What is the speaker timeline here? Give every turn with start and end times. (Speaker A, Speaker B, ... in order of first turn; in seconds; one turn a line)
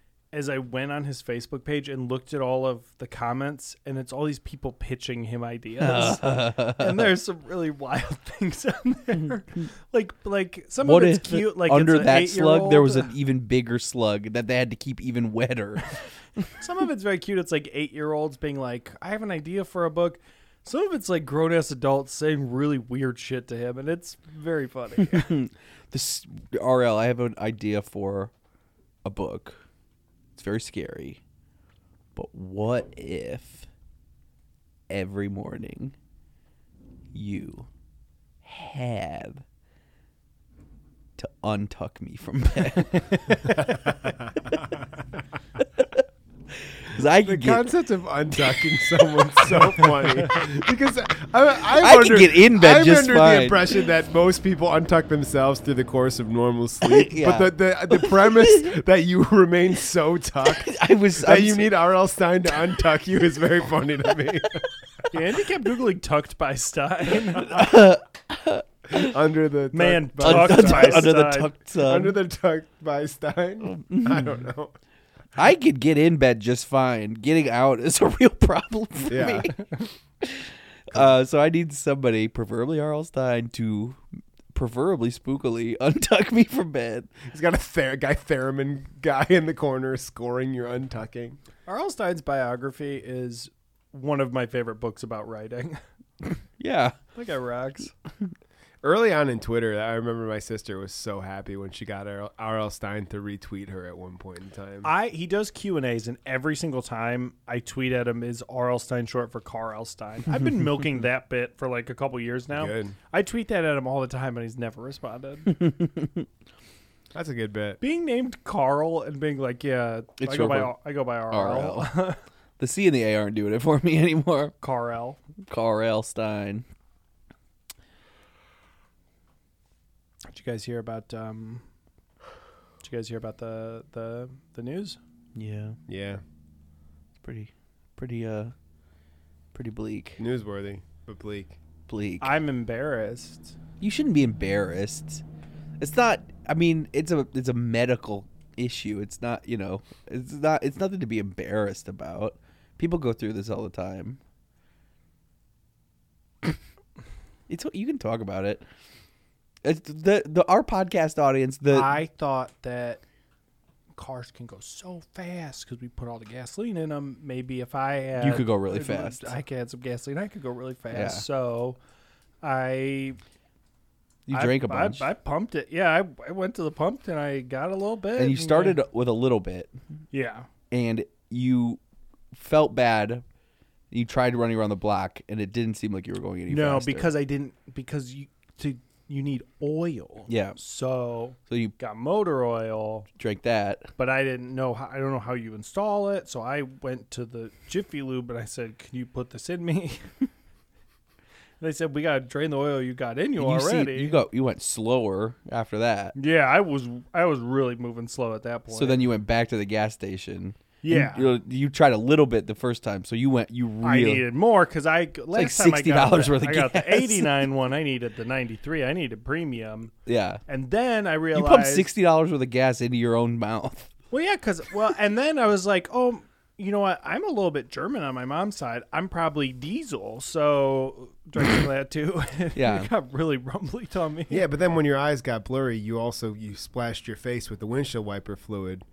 Speaker A: 0.3-13.1
Speaker B: 5.8-7.2
Speaker B: 10.8-16.4
Speaker A: 16.6-25.3
Speaker B: 25.0-28.3
Speaker B: 29.0-29.6
Speaker B: 30.4-31.2
Speaker B: 32.1-33.6
Speaker B: 34.9-35.9
Speaker B: 37.1-37.7
Speaker B: 38.4-39.4
Speaker B: 41.2-43.7
Speaker C: 43.6-44.8
Speaker B: 45.6-46.0
Speaker B: 46.8-47.6
Speaker C: 47.2-64.7
Speaker B: 51.8-53.7
Speaker B: 56.8-58.8
Speaker B: 60.5-61.6
Speaker A: 65.1-67.7
Speaker B: 67.4-69.2
Speaker C: 68.9-71.1
Speaker A: 69.7-71.5
Speaker B: 70.2-72.2
Speaker C: 71.8-74.7
Speaker B: 73.6-74.4
Speaker B: 75.3-79.6
Speaker C: 79.1-79.5
Speaker B: 80.2-84.0
Speaker B: 84.5-87.1
Speaker C: 87.3-91.4
Speaker A: 91.7-95.8
Speaker B: 96.6-97.0
Speaker A: 97.1-97.9
Speaker C: 98.8-104.9
Speaker A: 104.8-115.5
Speaker C: 112.5-113.0
Speaker B: 115.5-116.2
Speaker C: 117.1-117.8
Speaker A: 117.8-122.2
Speaker B: 120.2-120.7
Speaker B: 121.3-121.9
Speaker B: 122.6-124.5
Speaker A: 124.6-125.2
Speaker B: 125.5-126.6
Speaker A: 130.3-131.6
Speaker A: 132.8-135.0
Speaker B: 135.3-135.8
Speaker C: 135.9-136.2
Speaker B: 137.2-138.5
Speaker B: 139.5-140.2
Speaker C: 140.2-141.6
Speaker B: 141.9-142.3
Speaker A: 142.2-143.5
Speaker B: 143.8-145.2
Speaker B: 145.8-154.2
Speaker B: 157.5-158.6
Speaker B: 159.6-161.9
Speaker A: 161.7-163.0
Speaker A: 163.9-171.8
Speaker B: 168.2-169.3
Speaker B: 170.9-171.2
Speaker A: 172.4-173.2
Speaker B: 174.3-175.1
Speaker A: 174.3-178.8
Speaker B: 178.2-179.7
Speaker A: 180.1-180.5
Speaker B: 180.7-181.8
Speaker B: 182.3-183.2
Speaker B: 183.9-187.1
Speaker A: 186.5-193.1
Speaker B: 190.3-190.6
Speaker B: 191.5-191.7
Speaker B: 193.2-193.9
Speaker A: 194.0-200.1
Speaker A: 201.6-204.2
Speaker B: 203.4-206.1
Speaker A: 206.1-209.1
Speaker B: 208.7-214.2
Speaker A: 210.8-211.3
Speaker A: 213.8-219.9
Speaker B: 215.3-217.5
Speaker B: 220.1-220.4
Speaker A: 220.5-221.9
Speaker B: 221.3-223.9
Speaker A: 224.1-234.4
Speaker B: 232.5-232.9
Speaker C: 234.3-238.8